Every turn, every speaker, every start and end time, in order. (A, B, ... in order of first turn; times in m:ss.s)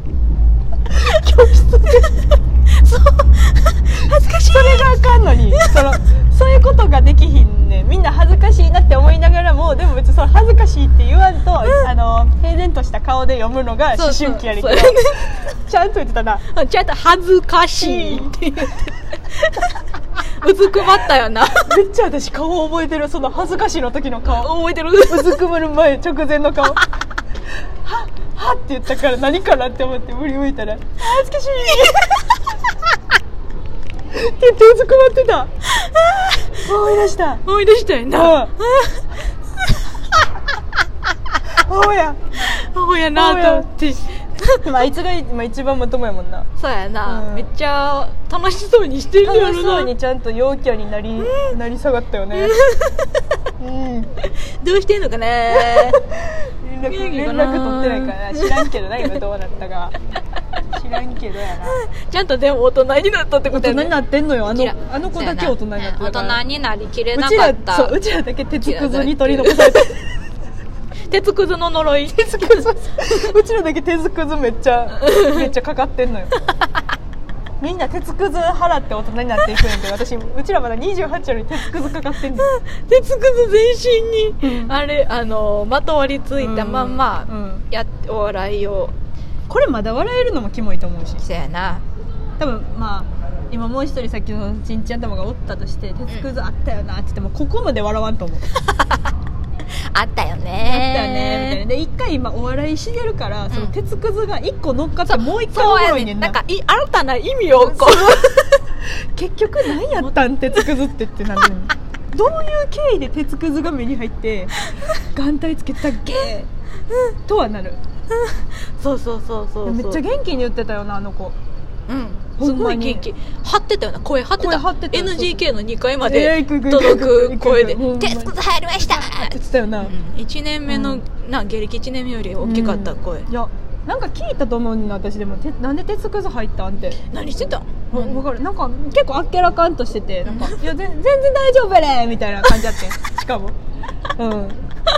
0:00.9-0:02.1 A
0:01.0-0:05.8 B
0:04.4-0:16.5 A
0:14.0-0:15.4 B
0:16.5-0:19.8 B
0:17.8-0:18.3 A
0:20.4-0:21.8 B
0:21.6-0:24.5 A
0:24.3-0:25.4 B
0:25.1-0:26.8 A
0:27.8-0:32.4 A
0:34.1-0:35.5 A
0:35.7-0:36.7 B
0:36.6-0:37.4 A
0:37.4-0:39.0 B
0:38.1-0:38.5 A
0:39.6-0:40.2 B
0:41.6-0:42.4 A
0:42.4-0:44.7 B
0:43.1-0:43.7 A
0:44.6-0:46.5 A
0:46.6-0:49.9 B
0:47.0-0:47.5 A
0:49.2-0:52.6 A
0:51.2-0:51.6 B
0:52.4-0:53.1 B
0:53.6-0:54.1 A
0:54.2-0:56.0 B
0:55.6-1:00.0 A
0:56.9-0:58.7 B
1:00.7-1:01.8 A
1:01.6-1:03.9 B
1:03.5-1:06.4 A
1:04.5-1:08.0 B
1:07.1-1:10.0 A
1:08.6-1:10.0 B
1:11.1-1:13.3 B
1:12.1-1:16.4 A
1:15.0-1:15.5 B
1:17.6-1:22.5 A
1:22.4-1:29.0 B
1:24.4-1:24.7 A
1:26.4-1:27.6 A
1:29.5-1:31.2 A
1:31.2-1:31.8 B
1:32.4-1:38.5 A
1:38.5-1:39.1 B
1:39.6-1:41.6 B
1:40.6-1:46.4 A
1:45.1-1:48.6 B
1:47.6-1:56.5 A
1:49.8-1:50.6 B
1:57.3-1:57.8 A
1:58.1-2:00.0 B
1:59.6-2:01.4 A
2:01.9-2:13.3 B
2:02.4-2:03.0 A
2:04.4-2:05.4 A
2:06.0-2:09.9 A
2:10.7-2:11.0 A
2:12.4-2:17.0 A
2:17.1-2:18.2 B
2:17.9-2:23.6 A
2:20.2-2:20.6 B
2:24.2-2:24.6 A